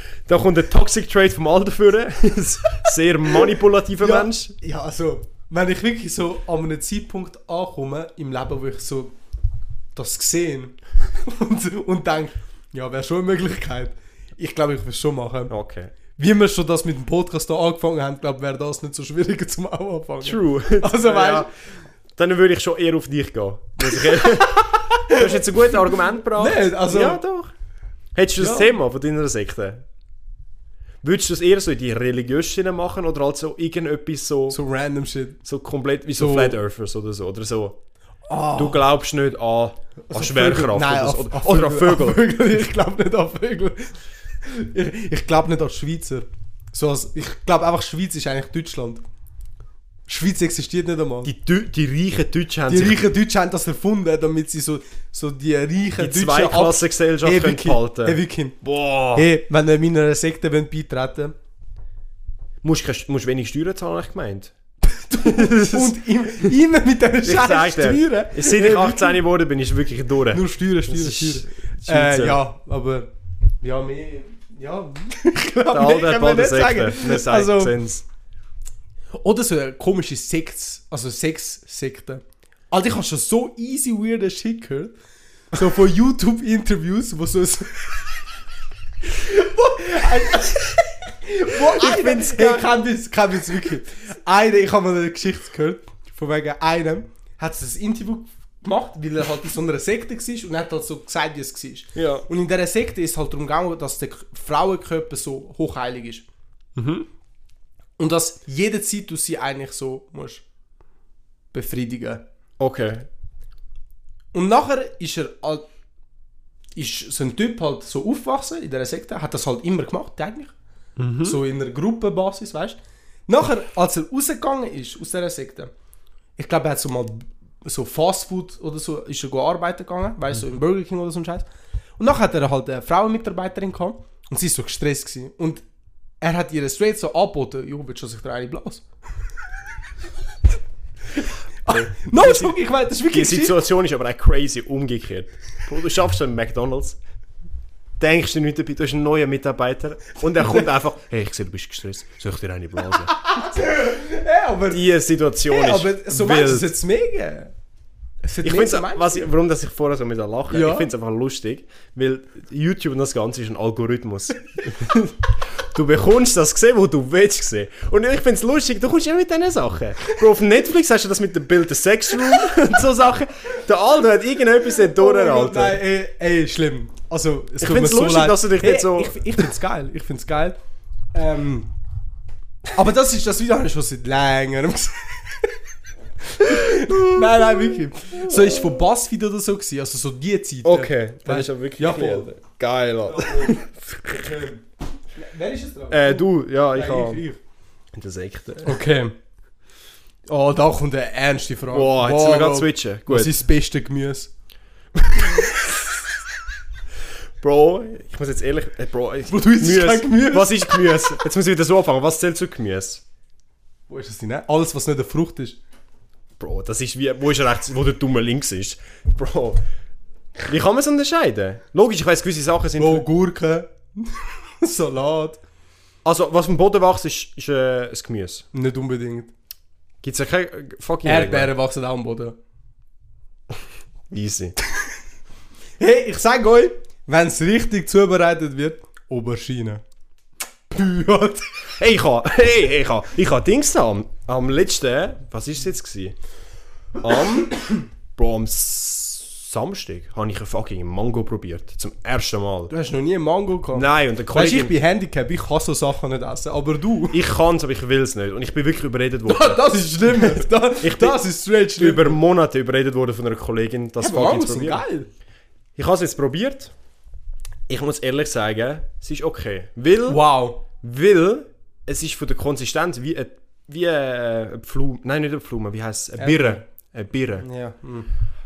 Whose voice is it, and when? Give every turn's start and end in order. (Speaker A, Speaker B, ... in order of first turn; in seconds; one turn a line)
Speaker A: 0.2-4.5
Speaker B: 4.0-9.1
Speaker B: 9.9-15.5
Speaker A: 15.5-15.9
Speaker B: 16.1-21.5
Speaker A: 20.2-21.5
Speaker A: 22.1-27.5
Speaker B: 23.8-27.2
Speaker A: 28.1-29.8
Speaker B: 28.4-28.7
Speaker A: 31.0-34.6
Speaker B: 34.5-35.4
Speaker A: 35.4-37.8
Speaker B: 36.2-36.6
Speaker B: 38.3-38.8
Speaker A: 38.5-42.2
Speaker B: 40.1-49.0
Speaker B: 50.1-51.3
Speaker A: 51.2-53.0
Speaker B: 52.7-58.6
Speaker A: 56.0-59.3
Speaker B: 59.1-61.3
Speaker A: 62.6-64.5
Speaker B: 64.8-69.2
Speaker A: 65.2-66.5
Speaker A: 67.2-72.4
Speaker B: 70.3-73.1
Speaker B: 73.6-77.8
Speaker A: 75.7-78.0
Speaker B: 79.1-84.9
Speaker B: 85.5-88.1
Speaker B: 89.0-106.2
Speaker A: 91.5-92.8
Speaker A: 101.9-102.2
Speaker A: 106.8-107.0
Speaker B: 108.0-110.4
Speaker B: 111.5-112.2
Speaker A: 112.6-113.1
Speaker B: 114.3-115.6
Speaker B: 116.8-120.5
Speaker A: 121.0-121.4
Speaker B: 121.2-125.7
Speaker B: 126.4-131.4
Speaker B: 132.0-135.6
Speaker B: 136.2-138.8
Speaker B: 141.2-143.6
Speaker A: 141.7-147.0
Speaker A: 148.0-153.1
Speaker B: 153.1-154.8
Speaker A: 154.7-156.7
Speaker B: 155.5-157.5
Speaker B: 158.2-159.3
Speaker A: 158.4-175.8
Speaker B: 160.5-160.9
Speaker B: 174.7-180.6
Speaker A: 177.6-179.5
Speaker B: 181.1-181.7
Speaker B: 182.7-185.5
Speaker B: 186.2-192.3
Speaker A: 186.5-188.8
Speaker A: 190.6-194.4
Speaker B: 193.1-194.6
Speaker B: 195.2-197.4
Speaker A: 195.9-197.2
Speaker A: 197.9-198.8
Speaker B: 198.6-199.1
Speaker B: 200.3-204.3
Speaker A: 201.7-203.3
Speaker B: 205.1-205.5
Speaker A: 205.2-205.5
Speaker A: 207.4-213.0
Speaker B: 209.3-211.2
Speaker B: 213.9-215.6
Speaker A: 216.4-219.6
Speaker A: 220.3-223.1
Speaker B: 222.8-225.4
Speaker A: 226.0-228.4
Speaker B: 228.5-229.3
Speaker A: 230.0-231.5
Speaker B: 231.0-232.3
Speaker A: 234.1-234.5
Speaker B: 235.8-239.8
Speaker B: 240.7-241.5
Speaker A: 241.8-246.2
Speaker A: 247.0-252.7
Speaker B: 252.7-257.2
Speaker A: 253.7-254.7
Speaker A: 257.1-261.2
Speaker B: 259.2-262.2
Speaker A: 261.8-264.8
Speaker B: 264.0-265.1
Speaker A: 265.8-266.7
Speaker A: 267.7-277.4
Speaker B: 270.1-270.6
Speaker B: 276.2-276.6
Speaker B: 277.4-278.1